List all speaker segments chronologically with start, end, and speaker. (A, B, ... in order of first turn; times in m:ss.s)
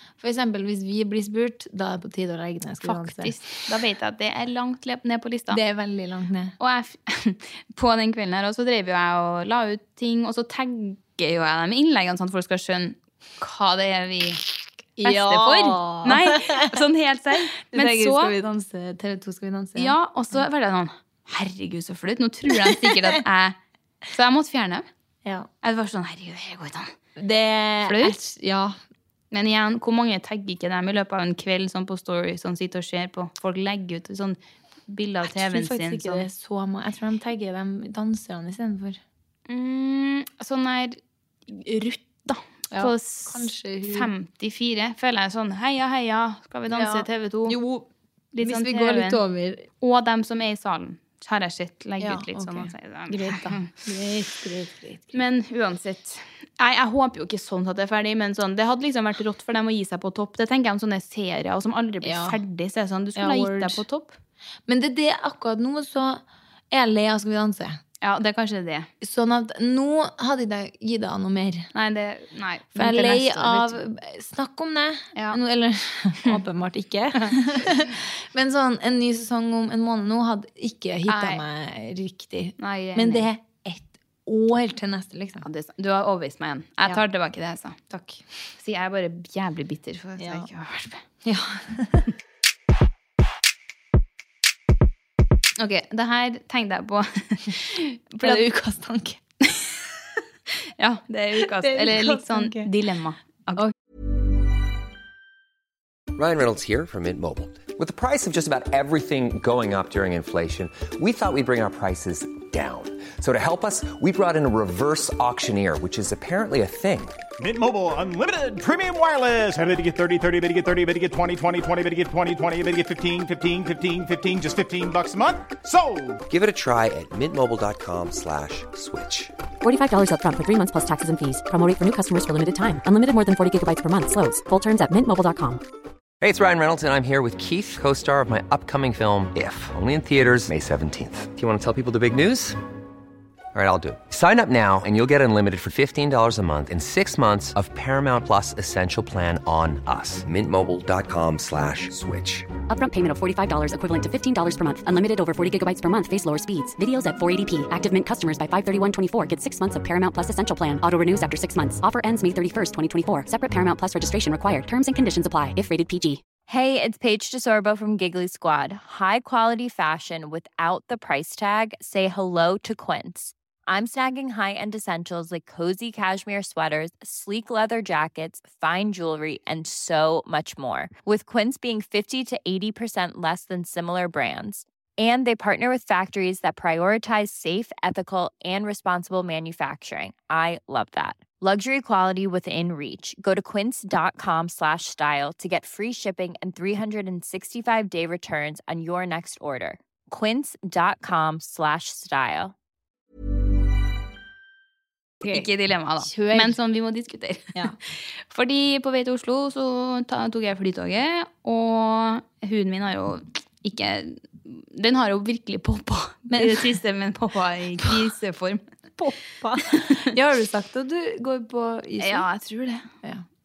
0:00.2-0:03.6 A
0:02.8-0:05.6 B
0:05.5-0:06.5 A
0:06.6-0:14.4 B
0:15.0-0:16.8 A
0:15.0-0:18.4 B
0:17.7-0:20.0 A
0:19.8-0:23.6 B
0:22.5-0:23.2 A
0:24.1-0:24.9 B
0:25.6-0:26.9 B
0:27.2-0:28.8 A
0:27.8-0:28.2 B
0:29.3-0:36.2 B
0:35.2-0:39.0 A
0:39.5-0:47.6 B
0:42.7-0:44.1 A
0:46.7-0:49.6 A
0:48.3-0:49.2 B
0:49.8-0:53.7 B
0:52.0-0:55.1 A
0:55.1-1:04.2 B
1:02.0-1:02.4 A
1:03.2-1:03.8 A
1:04.7-1:07.8 A
1:08.0-1:08.9 B
1:09.0-1:11.7 A
1:11.7-1:13.8 B
1:12.7-1:25.4 A
1:17.2-1:17.9 B
1:21.1-1:21.4 B
1:22.6-1:23.3 B
1:25.4-1:27.8 B
1:27.9-1:28.2 A
1:28.6-1:31.0 B
1:30.2-1:30.5 A
1:31.2-1:32.1 A
1:35.6-1:38.4 B
1:38.2-1:39.2 A
1:40.8-1:43.7 B
1:41.4-1:42.7 A
1:46.1-1:57.2 C
1:57.4-2:06.2 D
2:06.3-2:09.3 C
2:09.6-2:15.6 E
2:16.2-2:22.6 C
2:23.5-2:32.5 C
2:32.7-2:46.2 E
2:46.5-3:22.5 F
3:25.2-3:38.6 B
3:26.0-3:26.6 A
3:36.3-3:36.7 A
3:39.0-3:42.2 A
3:39.7-3:40.0 B
3:42.0-3:42.9 B